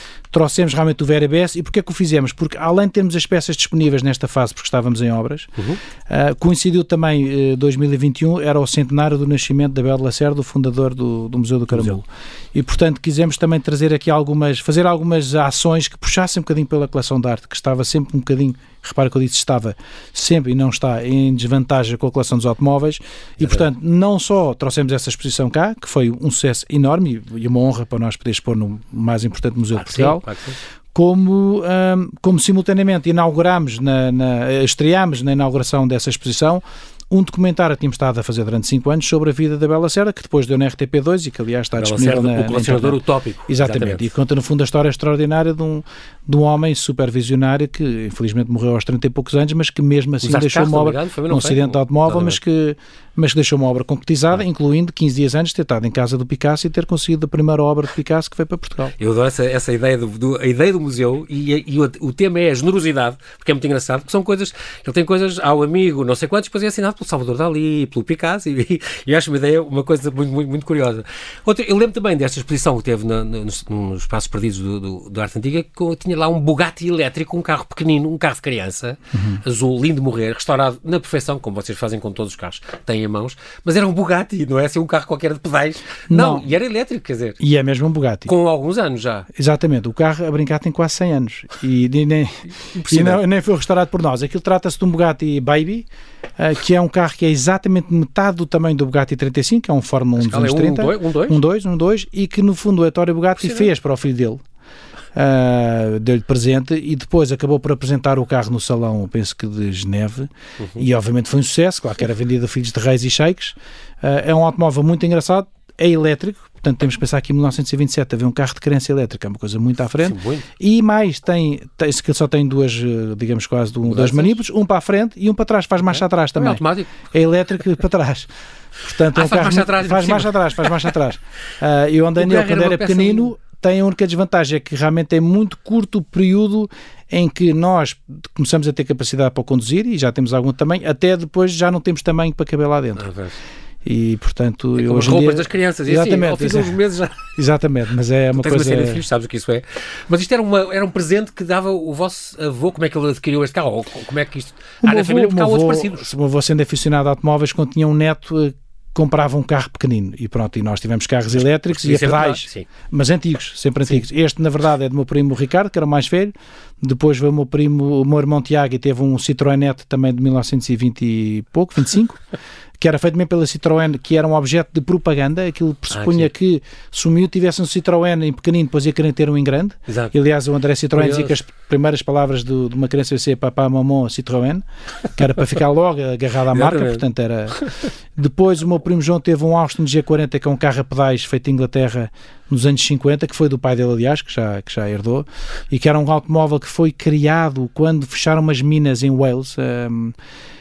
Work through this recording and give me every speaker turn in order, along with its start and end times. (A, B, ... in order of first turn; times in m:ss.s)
0:00.3-0:05.5 A
0:06.1-0:30.2 A
0:23.4-0:23.7 B
0:29.7-0:30.6 B
0:30.9-0:58.9 A
0:41.8-0:44.1 B
0:50.2-0:52.4 B
0:59.0-1:27.4 B
1:19.1-1:19.4 A
1:26.1-1:26.5 A
1:27.4-1:28.3 A
1:28.3-1:29.3 B
1:29.3-1:44.4 A
1:32.5-1:33.2 B
1:40.2-1:41.4 B
1:45.1-2:08.3 A
1:50.6-1:50.8 B
2:00.0-2:00.5 B
2:03.8-2:04.4 B
2:05.9-2:07.0 B
2:08.8-2:23.1 A
2:09.1-2:10.8 B
2:12.2-2:13.3 B
2:23.0-2:23.4 B
2:23.8-2:26.8 A
2:24.8-2:27.3 B
2:27.3-2:29.0 A
2:28.3-2:36.1 B
2:34.8-2:52.3 A
2:41.6-2:42.7 B
2:52.8-3:04.6 A
2:55.9-2:56.3 B
2:59.9-3:00.1 B
3:00.9-3:01.4 B
3:05.1-3:20.1 A
3:06.5-3:07.0 B